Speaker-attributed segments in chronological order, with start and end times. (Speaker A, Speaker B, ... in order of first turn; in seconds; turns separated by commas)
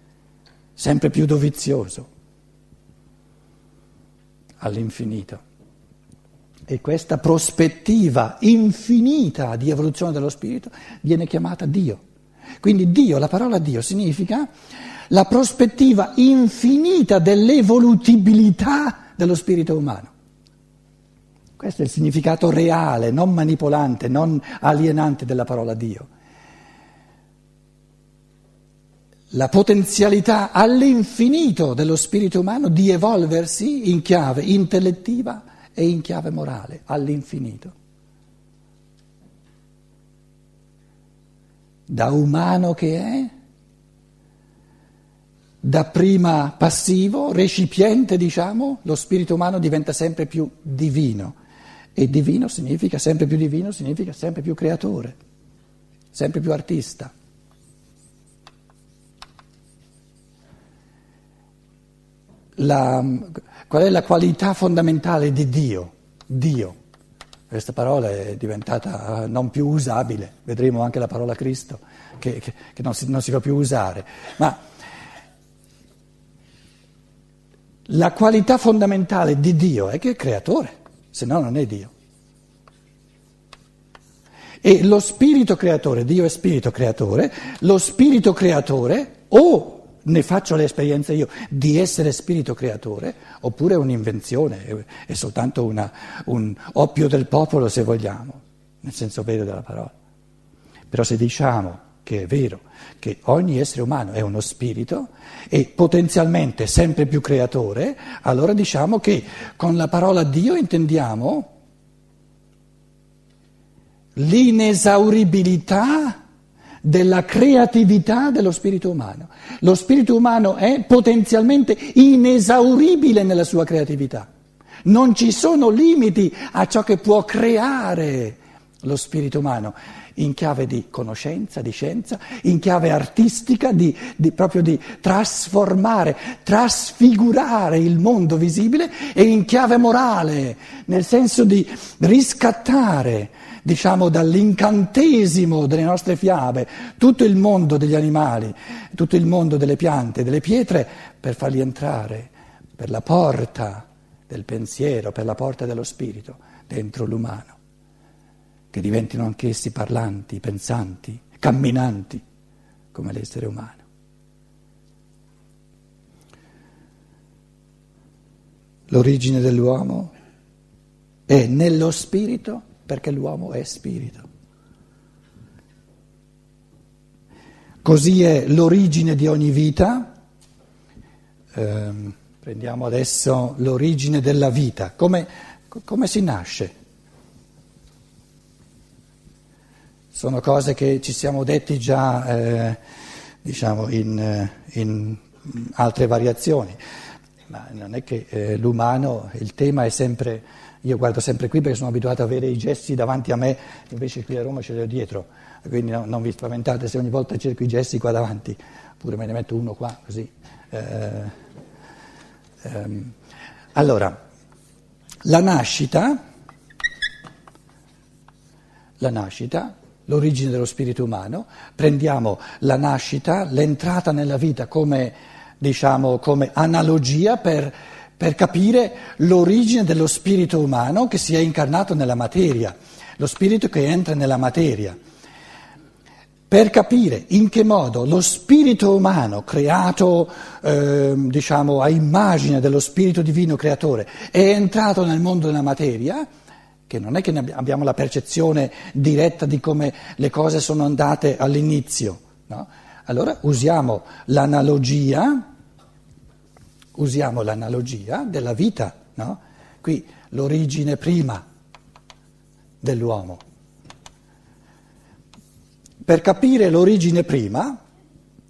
Speaker A: 0.8-2.1, Speaker A: 4.6-5.4, Speaker A: 6.7-12.0, Speaker A: 12.6-14.5, Speaker A: 15.1-20.1, Speaker A: 21.6-26.1, Speaker A: 29.3-37.7, Speaker A: 41.9-43.3, Speaker A: 45.6-51.4, Speaker A: 52.0-55.1, Speaker A: 56.1-57.1, Speaker A: 62.6-66.7, Speaker A: 67.5-74.6, Speaker A: 77.9-81.9, Speaker A: 84.6-99.9, Speaker A: 100.9-111.5, Speaker A: 114.2-116.2, Speaker A: 116.8-124.3, Speaker A: 124.8-157.6, Speaker A: 158.7-162.2, Speaker A: 162.9-163.8, Speaker A: 168.9-170.1, Speaker A: 171.3-174.2, Speaker A: 177.8-180.1, Speaker A: 181.5-186.7, Speaker A: 190.1-192.8, Speaker A: 193.4-196.8, Speaker A: 197.5-211.3, Speaker A: 212.6-213.1, Speaker A: 213.7-214.2, Speaker A: 215.2-216.2, Speaker A: 219.0-234.9, Speaker A: 236.5-246.2, Speaker A: 246.9-255.4, Speaker A: 256.9-261.4, Speaker A: 262.8-263.4, Speaker A: 266.0-267.8